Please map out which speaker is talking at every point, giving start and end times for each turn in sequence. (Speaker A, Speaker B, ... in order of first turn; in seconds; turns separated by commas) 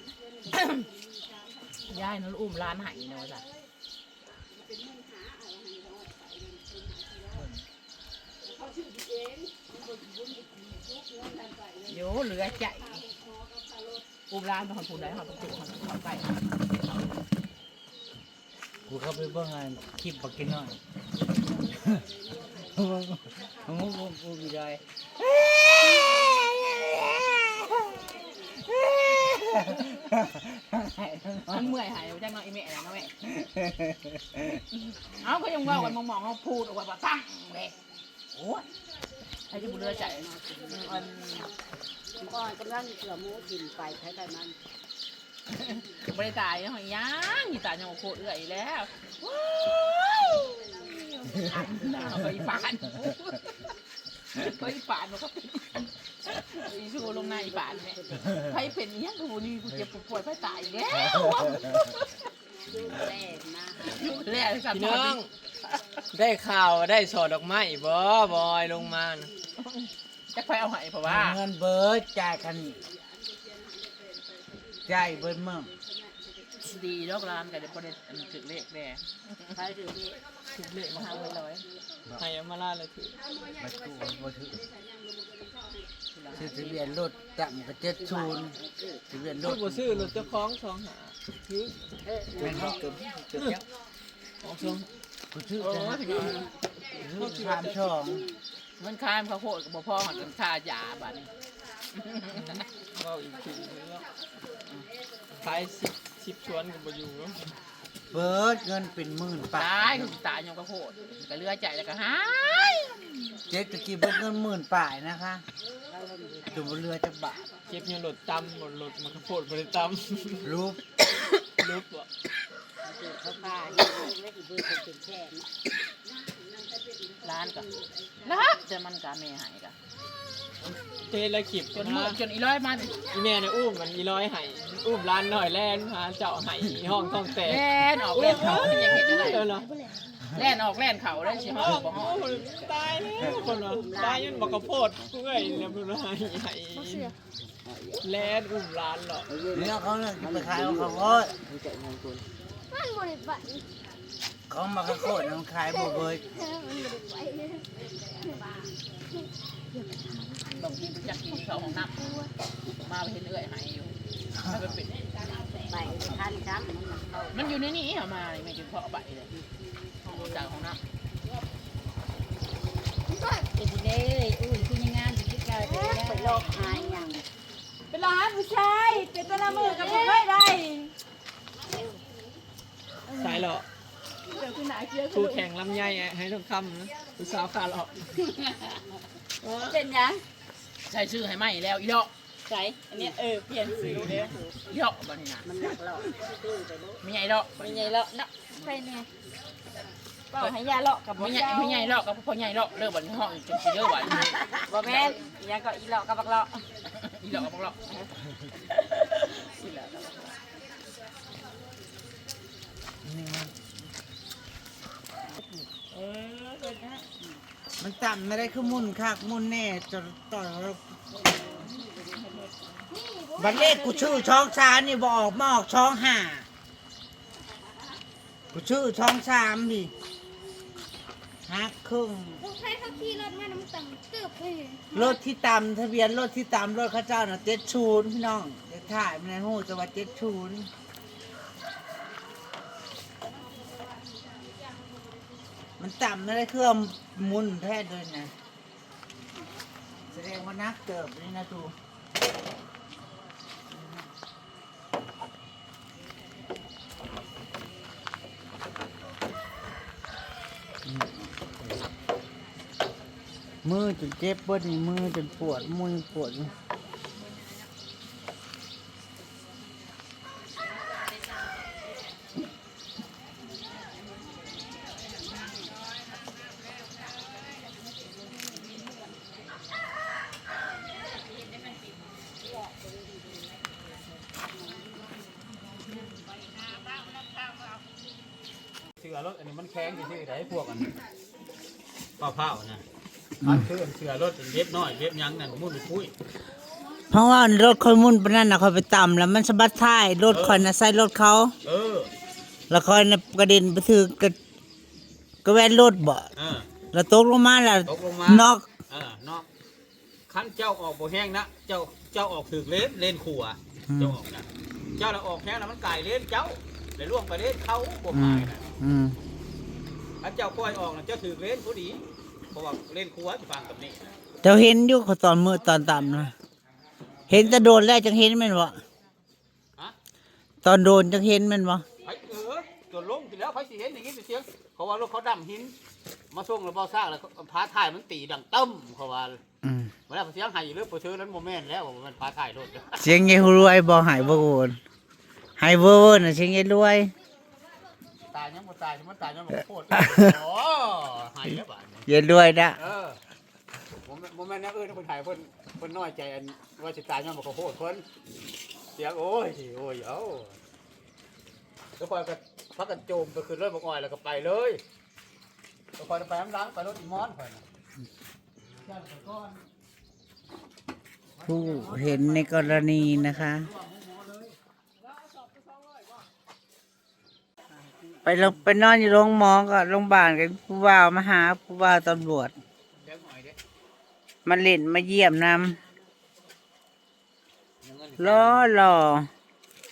Speaker A: 0.5-0.9, Speaker A: 1.8-3.5, Speaker A: 11.8-13.1, Speaker A: 14.3-16.3, Speaker B: 18.9-20.8, Speaker B: 21.6-31.8, Speaker A: 31.5-33.1, Speaker B: 33.2-34.6, Speaker A: 35.0-37.8, Speaker B: 35.7-35.9, Speaker A: 39.5-41.5, Speaker C: 39.5-41.1, Speaker C: 42.2-44.6, Speaker A: 45.5-53.5, Speaker B: 51.6-52.1, Speaker A: 54.3-62.1, Speaker C: 57.0-58.4, Speaker B: 61.1-61.4, Speaker C: 62.6-64.3, Speaker A: 63.9-65.2, Speaker D: 64.7-65.3, Speaker D: 66.1-69.3, Speaker A: 69.6-71.4, Speaker B: 71.0-72.8, Speaker B: 74.9-75.7, Speaker A: 76.6-79.6, Speaker C: 79.6-80.2, Speaker D: 80.5-81.4, Speaker A: 80.9-81.7, Speaker D: 82.1-83.2, Speaker B: 83.6-84.6, Speaker C: 85.1-85.6, Speaker A: 86.2-86.7, Speaker B: 86.3-88.6, Speaker C: 88.0-89.1, Speaker B: 89.1-90.3, Speaker D: 89.4-91.8, Speaker C: 92.1-92.6, Speaker B: 92.4-93.6, Speaker D: 94.4-94.9, Speaker B: 95.3-96.4, Speaker A: 95.7-96.5, Speaker D: 95.7-96.5, Speaker B: 96.9-98.2, Speaker D: 97.0-98.2, Speaker A: 98.8-101.3, Speaker A: 102.0-102.7, Speaker D: 102.4-104.1, Speaker D: 105.4-107.5, Speaker B: 108.1-110.1, Speaker A: 109.5-113.0, Speaker B: 113.5-115.4, Speaker C: 115.9-116.7, Speaker B: 116.5-117.5, Speaker D: 117.7-120.5, Speaker B: 120.4-120.8, Speaker D: 121.4-122.1, Speaker C: 122.8-125.5, Speaker A: 127.2-127.7, Speaker A: 128.2-129.8, Speaker D: 131.1-132.2, Speaker A: 131.7-133.2, Speaker D: 133.1-139.9, Speaker A: 137.3-139.6, Speaker E: 138.9-139.2, Speaker A: 140.3-142.3, Speaker D: 141.3-147.1, Speaker C: 143.4-144.7, Speaker E: 146.8-147.1, Speaker D: 148.0-149.3, Speaker C: 149.3-152.1, Speaker B: 149.5-151.3, Speaker E: 152.7-153.6, Speaker B: 154.5-156.2, Speaker E: 155.7-157.6, Speaker E: 159.8-160.7, Speaker A: 160.5-162.3, Speaker A: 162.8-165.9, Speaker C: 165.7-167.6, Speaker A: 167.3-169.3, Speaker E: 170.1-170.4, Speaker A: 170.1-170.8, Speaker C: 173.7-177.2, Speaker E: 175.5-177.1, Speaker E: 177.9-180.9, Speaker C: 179.4-180.3, Speaker E: 183.1-183.5, Speaker D: 183.2-183.7, Speaker E: 184.3-185.5, Speaker D: 185.1-188.1, Speaker C: 189.7-190.2, Speaker A: 190.8-192.1, Speaker E: 192.5-193.1, Speaker C: 192.9-194.4, Speaker E: 193.7-194.3, Speaker D: 193.7-194.2, Speaker A: 194.6-195.5, Speaker C: 195.4-197.0, Speaker A: 197.0-198.0, Speaker C: 197.6-198.1, Speaker E: 198.6-199.1, Speaker E: 200.3-201.9, Speaker A: 201.2-205.3, Speaker E: 204.8-206.5, Speaker C: 204.8-205.1, Speaker A: 206.8-207.9, Speaker E: 209.6-210.3, Speaker B: 213.0-213.5, Speaker A: 215.8-217.0, Speaker B: 217.8-220.8, Speaker A: 221.6-222.5, Speaker E: 222.9-224.3, Speaker B: 223.4-226.5, Speaker B: 228.5-229.9, Speaker B: 231.5-232.4, Speaker E: 232.4-235.1, Speaker B: 234.9-240.7, Speaker B: 245.8-248.3, Speaker B: 250.1-251.7, Speaker B: 263.6-266.5, Speaker F: 289.0-290.9, Speaker F: 292.2-292.8, Speaker F: 293.4-296.1, Speaker B: 297.1-301.5, Speaker F: 300.3-300.7, Speaker F: 301.6-302.1, Speaker B: 302.7-304.4, Speaker B: 305.4-306.3, Speaker F: 306.4-306.7, Speaker B: 306.9-308.7, Speaker F: 307.9-309.5, Speaker F: 310.3-318.7, Speaker B: 313.9-314.2, Speaker B: 318.1-319.2, Speaker F: 320.2-322.0, Speaker F: 322.5-324.1, Speaker B: 324.4-326.3, Speaker B: 327.3-328.8, Speaker F: 327.3-327.7, Speaker B: 330.6-331.9, Speaker F: 332.0-335.8, Speaker F: 336.3-339.4, Speaker B: 339.6-339.9, Speaker F: 340.1-343.3, Speaker B: 343.0-344.8, Speaker B: 345.6-347.1, Speaker F: 348.3-352.1, Speaker B: 350.0-350.3, Speaker B: 352.1-352.8, Speaker F: 352.8-353.2, Speaker F: 354.0-358.1, Speaker F: 358.9-360.6, Speaker F: 362.0-364.8, Speaker F: 366.0-367.6, Speaker F: 368.9-369.6, Speaker B: 371.4-373.7, Speaker F: 371.7-372.1, Speaker F: 373.6-374.5, Speaker B: 378.2-382.5, Speaker F: 383.0-383.6, Speaker B: 384.4-385.8, Speaker F: 387.8-388.7, Speaker B: 388.2-389.3